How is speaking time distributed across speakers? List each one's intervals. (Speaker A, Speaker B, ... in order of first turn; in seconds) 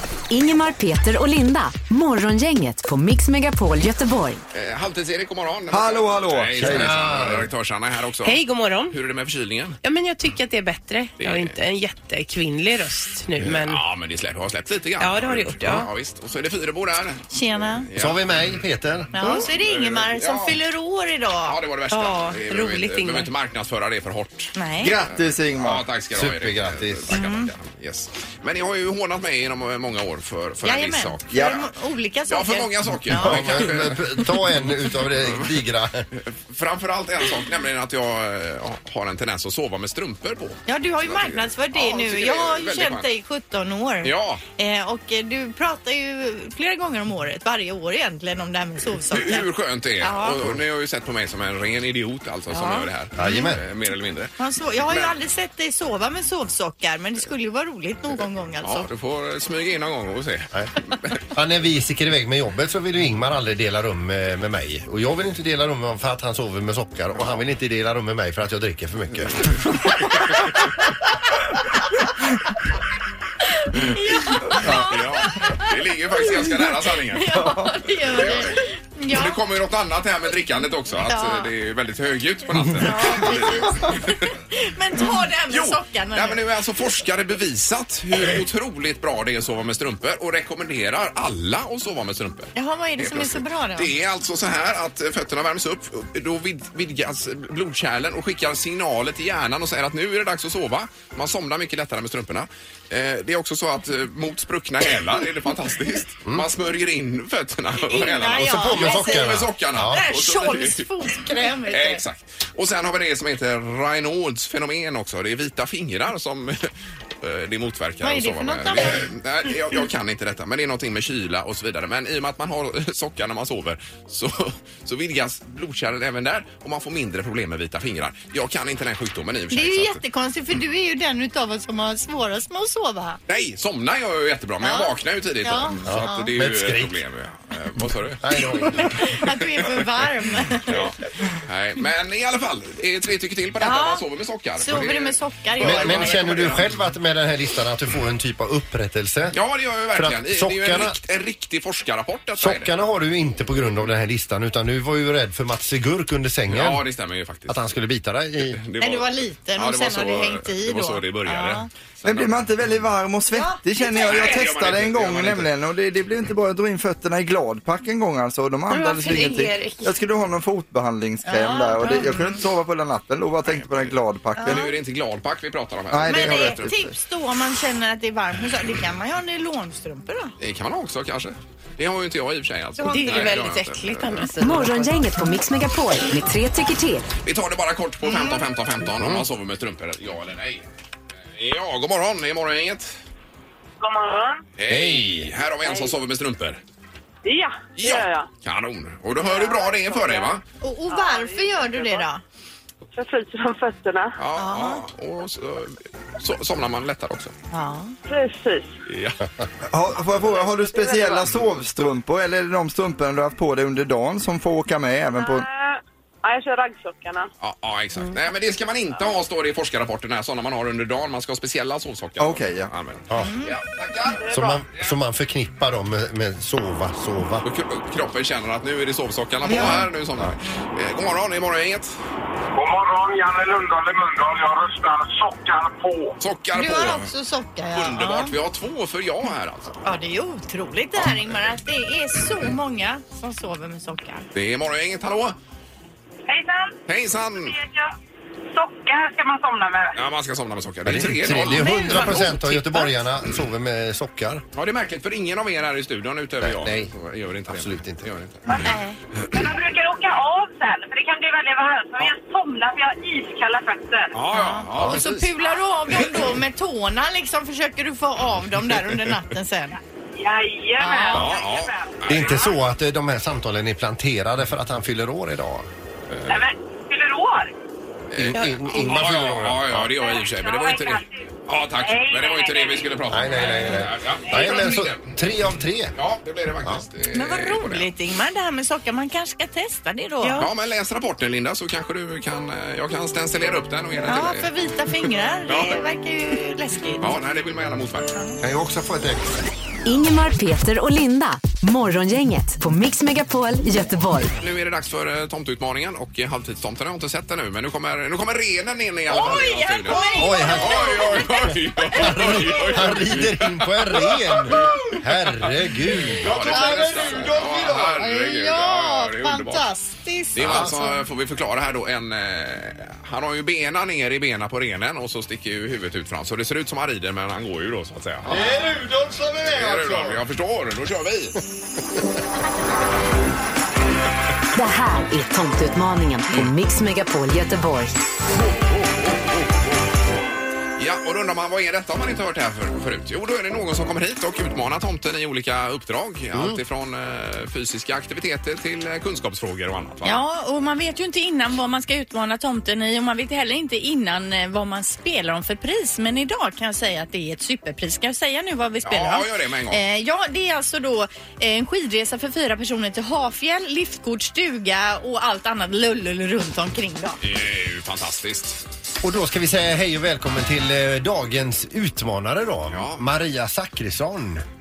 Speaker A: 0.3-4.4, 184.4-187.1, 299.8-304.3, 334.5-337.9
Speaker B: 4.5-9.8, 11.2-11.6, 13.4-17.3, 17.8-18.6, 19.2-20.6, 21.4-31.4, 32.3-34.2, 36.1-43.1, 44.0-44.4, 49.1-55.1, 58.6-61.2, 67.1-67.4, 70.1-70.5, 74.6-84.3, 85.5-110.9, 111.7-130.0, 133.3-138.2, 140.7-146.8, 149.3-152.7, 156.5-157.7, 158.4-162.5, 163.9-165.5, 173.4-176.7, 180.4-184.3, 187.2-190.7, 191.3-192.9, 194.6-196.6, 197.8-200.4, 204.2-207.3, 208.9-209.2, 217.4-224.9, 227.4-231.9, 236.2-237.1, 237.7-239.8, 244.3-245.4, 246.9-247.6, 249.9-252.3, 254.5-258.7, 264.1-265.3, 271.1-272.4, 276.1-276.4, 278.1-285.1, 285.9-287.9, 290.4-294.5, 295.5-295.8, 297.0-298.1, 304.4-314.3, 316.1-319.7, 320.3-328.4, 329.5-331.4, 340.8-350.2, 358.8-359.8, 367.2-368.6, 372.7-373.0
Speaker C: 5.7-6.9, 24.8-25.9, 31.3-31.7, 74.5-75.0, 77.3-77.7, 162.0-174.7, 175.9-176.9, 209.7-215.4, 222.2-222.7, 316.2-318.1, 328.2-330.2
Speaker D: 6.6-7.5, 17.9-19.2, 26.1-27.1, 33.1-36.1, 53.1-53.6, 61.3-69.6, 108.3-110.0, 135.8-137.0, 138.2-139.0, 145.6-149.4, 149.9-151.0, 152.4-156.8, 157.5-158.6, 189.0-189.2, 194.7-195.3, 223.1-223.3, 224.3-227.4, 250.8-254.4, 256.4-256.9, 257.5-258.1, 264.8-265.0, 272.1-275.7, 278.1-279.9, 283.1-285.9, 298.4-299.4, 310.1-316.5, 320.4-320.7, 346.3-346.6, 369.0-374.4
Speaker E: 8.2-9.0, 9.8-13.8, 15.0-15.9, 21.9-23.3
Speaker F: 17.3-17.9, 19.1-21.6, 24.6-24.9, 27.1-27.5, 30.6-33.7, 40.7-49.5, 50.0-50.4, 52.5-53.5, 54.4-58.9, 73.5-75.7, 76.2-79.4, 81.1-81.5, 82.8-86.4, 92.5-93.9, 107.8-109.3, 109.8-112.0, 118.0-119.1, 129.5-133.2, 134.6-136.3, 138.7-140.8, 143.6-144.0, 144.6-146.4, 158.8-161.7, 163.3-164.2, 171.2-172.4, 174.3-174.7, 176.1-180.3, 182.8-184.9, 188.0-188.4, 200.6-202.2, 204.3-204.8, 207.5-207.9, 223.2-223.6, 229.4-229.8, 236.5-238.3, 239.8-244.3, 251.5-252.9, 258.5-259.0, 264.3-269.8, 270.8-271.2, 287.1-290.4, 294.1-297.1, 309.1-311.5, 316.5-317.3, 317.9-321.0, 350.0-367.2
Speaker G: 193.8-194.4, 195.6-195.9, 197.2-198.3, 199.2-202.1, 202.9-204.2, 208.1-208.7, 210.2-211.3, 215.2-217.3, 224.2-224.6, 246.3-246.8, 247.4-247.9, 248.5-250.0, 258.5-258.8, 259.3-264.1, 270.1-272.5, 276.3-277.5, 279.9-282.9, 284.3-284.7
Speaker H: 232.5-236.1